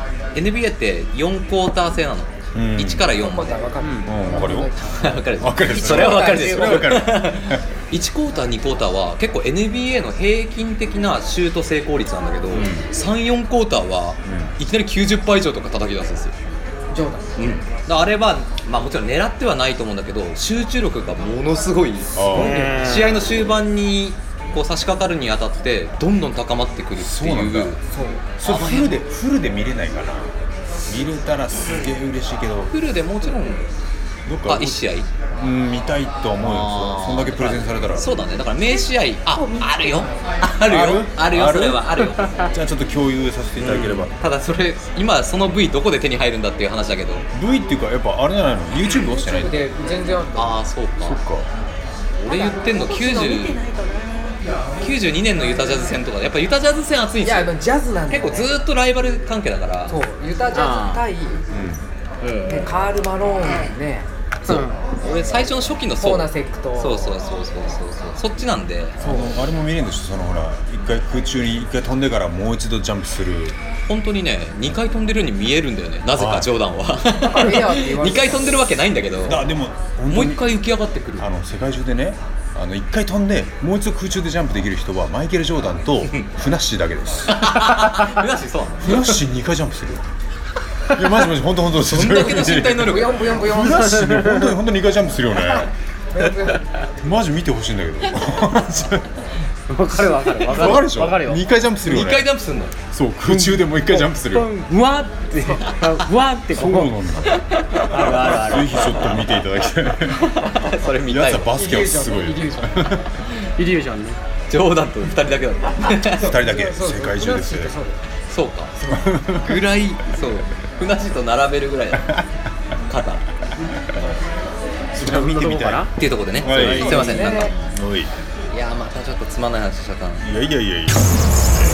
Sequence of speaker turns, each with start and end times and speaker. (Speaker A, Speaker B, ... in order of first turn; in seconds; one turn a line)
Speaker A: 0.3-3.6
Speaker B: 2.5-3.1
Speaker C: 3.1-6.9
Speaker D: 3.8-4.3
Speaker B: 4.0-4.7
Speaker A: 5.0-16.3
Speaker B: 5.3-7.6
Speaker B: 12.5-12.9
Speaker B: 14.2-14.5
Speaker C: 16.9-17.4
Speaker A: 17.4-27.8
Speaker B: 22.1-22.7
Speaker C: 22.2-22.9
Speaker D: 22.3-23.2
Speaker B: 27.0-27.8
Speaker C: 27.9-28.2
Speaker B: 28.4-30.3
Speaker A: 28.4-29.0
Speaker B: 30.9-32.7
Speaker A: 32.7-33.7
Speaker B: 34.2-34.8
Speaker A: 34.4-35.1
Speaker B: 35.4-38.1
Speaker A: 36.4-42.4
Speaker C: 38.5-40.1
Speaker B: 40.6-42.0
Speaker B: 42.5-44.1
Speaker D: 43.6-44.1
Speaker A: 43.6-47.2
Speaker B: 47.3-49.6
Speaker C: 49.0-50.6
Speaker A: 50.3-51.2
Speaker B: 51.0-51.5
Speaker A: 52.2-53.6
Speaker C: 52.3-54.3
Speaker A: 54.8-57.5
Speaker C: 57.2-58.6
Speaker A: 58.1-60.0
Speaker C: 59.9-61.4
Speaker D: 60.5-61.0
Speaker B: 61.5-61.9
Speaker D: 62.2-62.7
Speaker C: 62.5-64.8
Speaker A: 65.0-69.0
Speaker C: 66.0-67.2
Speaker B: 69.0-73.5
Speaker C: 69.0-69.3
Speaker A: 73.9-79.4
Speaker B: 76.1-76.5
Speaker C: 77.1-78.5
Speaker B: 79.2-80.4
Speaker A: 80.1-81.3
Speaker B: 81.2-87.7
Speaker A: 87.3-89.2
Speaker B: 88.8-90.0
Speaker B: 90.9-95.7
Speaker A: 91.7-93.4
Speaker C: 92.8-94.0
Speaker D: 93.6-94.5
Speaker C: 96.1-96.6
Speaker B: 97.0-99.1
Speaker D: 99.7-101.4
Speaker A: 100.5-100.9
Speaker B: 100.5-102.3
Speaker A: 101.8-102.7
Speaker B: 102.9-104.5
Speaker D: 103.2-106.9
Speaker B: 106.5-107.4
Speaker A: 107.2-109.2
Speaker D: 107.9-109.1
Speaker B: 107.9-110.3
Speaker A: 110.1-111.5
Speaker B: 111.0-113.2
Speaker C: 111.5-113.0
Speaker D: 113.5-114.2
Speaker A: 114.5-116.3
Speaker B: 116.1-117.8
Speaker C: 116.2-118.0
Speaker A: 118.3-122.2
Speaker B: 118.9-119.6
Speaker A: 122.9-123.2
Speaker B: 124.9-128.2
Speaker D: 125.0-125.9
Speaker A: 126.0-127.7
Speaker D: 126.5-127.3
Speaker C: 126.6-127.5
Speaker A: 128.5-130.3
Speaker B: 130.2-131.1